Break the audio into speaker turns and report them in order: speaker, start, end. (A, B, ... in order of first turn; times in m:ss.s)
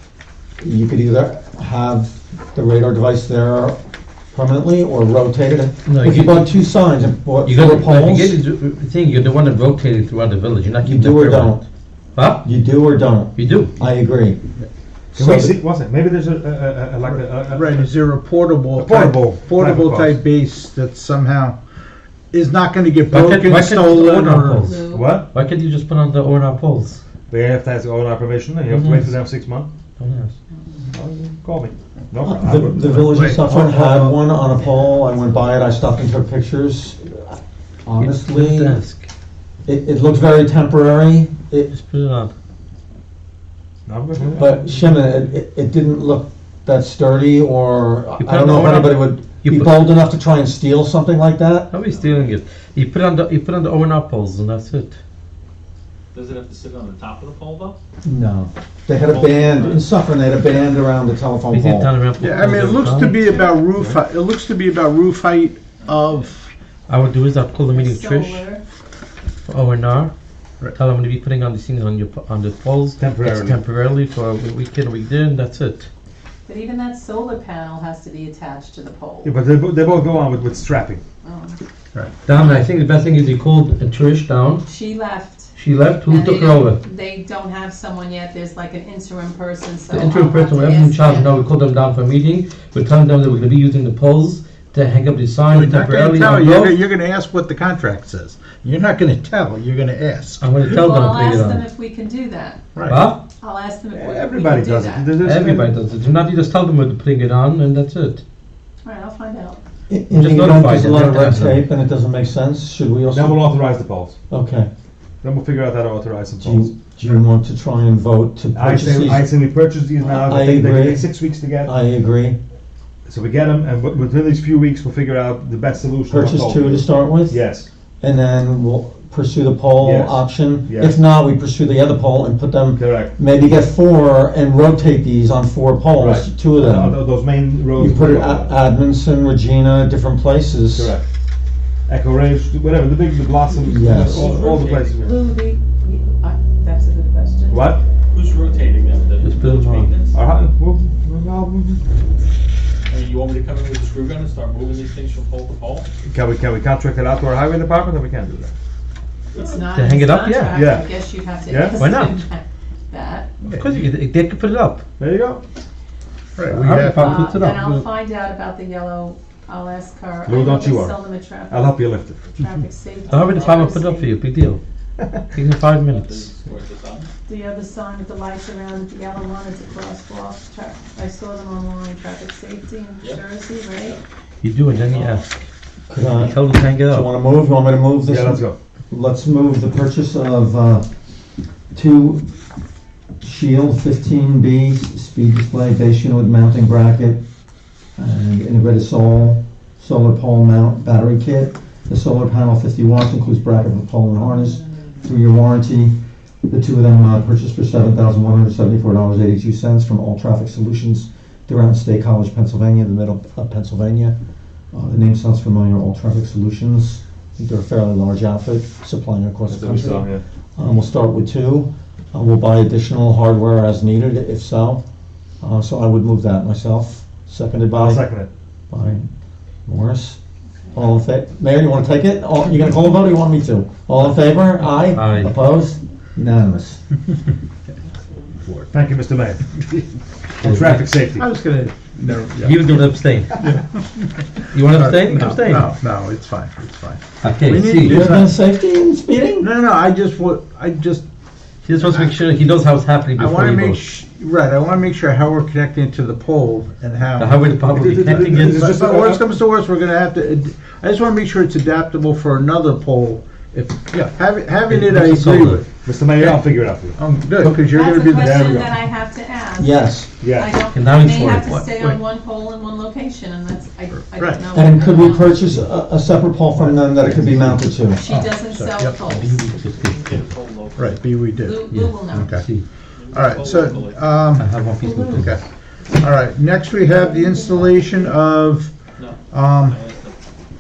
0:00.6-0:03.8 A
0:04.3-0:08.4 A
0:05.9-0:06.5 B
0:07.4-0:11.6 B
0:10.8-0:11.6 A
0:12.2-0:12.5 B
0:12.4-0:14.4 A
0:13.4-0:13.7 B
0:15.2-0:15.5 C
0:15.2-0:17.9 D
0:17.1-0:21.6 C
0:18.8-0:20.2 D
0:22.3-0:24.7 C
0:23.1-0:27.0 B
0:24.6-0:25.2 E
0:24.8-0:25.3 D
0:27.3-0:29.7 D
0:28.7-0:29.1 B
0:30.0-0:30.3 B
0:30.9-0:34.3 D
0:32.2-0:38.8 A
0:38.0-0:39.1 B
0:39.7-0:41.8 A
0:41.7-0:42.3 B
0:43.9-0:45.0 D
0:44.4-0:51.7 A
0:48.2-0:49.9 B
0:51.7-0:55.0 B
0:51.9-0:52.3 F
0:56.1-0:57.8 F
0:58.0-1:01.9 A
0:59.0-0:59.9 F
1:01.5-1:03.4 B
1:02.2-1:06.5 C
1:05.9-1:06.2 F
1:06.9-1:08.5 B
1:07.7-1:08.6 E
1:09.5-1:10.1 B
1:10.7-1:15.9 B
1:13.0-1:13.6 D
1:16.5-1:19.4 E
1:19.2-1:21.0 D
1:21.2-1:21.6 E
1:22.2-1:24.7 B
1:24.6-1:25.6 E
1:25.6-1:26.8 B
1:26.1-1:31.4 E
1:29.9-1:36.8 B
1:35.5-1:40.5 C
1:40.4-1:41.6 B
1:40.7-1:42.7 E
1:42.8-1:43.0 C
1:42.9-1:43.2 B
1:43.3-1:45.2 E
1:43.9-1:45.7 D
1:45.2-1:48.2 B
1:48.8-1:49.6 E
1:49.9-1:53.4 A
1:50.1-1:51.7 B
1:53.1-1:54.2 D
1:54.3-1:54.7 A
1:55.2-1:56.7 D
1:56.4-1:59.3 A
1:58.5-2:01.7 D
2:00.0-2:01.0 A
2:01.6-2:02.4 A
2:03.1-2:07.7 D
2:06.1-2:07.4 A
2:08.0-2:17.0 A
2:09.8-2:11.0 D
2:12.7-2:13.1 D
2:15.9-2:18.5 D
2:17.7-2:21.0 A
2:20.8-2:21.0 D
2:21.9-2:25.2 D
2:23.6-2:24.3 A
2:24.1-2:25.0 F
2:25.0-2:27.8 E
2:27.5-2:27.8 D
2:28.1-2:30.2 F
2:29.2-2:29.9 B
2:30.1-2:31.8 D
2:32.9-2:35.9 F
2:36.0-2:38.5 D
2:39.3-2:43.5 E
2:39.7-2:40.6 B
2:40.5-2:40.9 D
2:41.4-2:41.8 D
2:41.8-2:42.2 B
2:43.4-2:43.8 C
2:43.5-2:44.8 B
2:45.0-2:45.4 D
2:46.4-2:47.3 C
2:46.5-2:47.8 B
2:47.0-2:51.8 E
2:50.2-2:52.3 D
2:52.4-2:54.2 E
2:53.1-2:53.7 F
2:53.1-2:54.6 B
2:55.3-2:56.3 B
2:55.9-2:57.1 F
2:57.3-3:04.0 E
3:04.4-3:05.3 B
3:04.8-3:05.2 F
3:05.9-3:10.9 A
3:06.2-3:07.1 B
3:08.1-3:08.6 D
3:11.7-3:12.3 A
3:13.2-3:17.2 A
3:18.0-3:34.2 A
3:34.7-3:44.8 A
3:39.5-3:40.2 D
3:45.4-3:48.0 A
3:47.8-3:48.3 D
3:48.7-3:49.1 A
3:49.7-3:50.2 A
3:50.7-3:56.8 A
3:54.9-3:55.3 B
3:58.5-3:59.7 D
4:00.4-4:01.2 D
4:00.4-4:00.8 B
4:01.2-4:02.6 C
4:02.4-4:03.4 B
4:03.4-4:08.3 C
4:04.5-4:05.7 B
4:07.2-4:08.0 B
4:07.8-4:09.5 A
4:09.4-4:11.1 C
4:11.7-4:13.8 B
4:11.8-4:12.1 C
4:13.2-4:25.7 C
4:17.2-4:18.6 B
4:17.7-4:19.4 D
4:24.7-4:25.6 B
4:25.8-4:27.0 D
4:27.0-4:28.6 C
4:27.5-4:35.5 E
4:28.1-4:28.7 D
4:29.6-4:30.2 A
4:30.2-4:30.6 D
4:30.7-4:31.5 B
4:31.5-4:32.0 C
4:34.1-4:34.4 C
4:34.5-4:38.0 A
4:36.6-4:37.8 D
4:37.9-4:39.4 E
4:38.1-4:39.1 C
4:39.0-4:40.1 B
4:40.0-4:41.2 F
4:40.8-4:42.5 C
4:41.4-4:42.3 E
4:41.7-4:42.7 B
4:43.0-4:44.2 F
4:43.1-4:44.5 C
4:44.4-4:45.4 B
4:44.8-4:45.2 E
4:45.1-4:48.7 C
4:46.7-4:48.2 E
4:49.0-4:50.2 F
4:49.3-4:49.8 C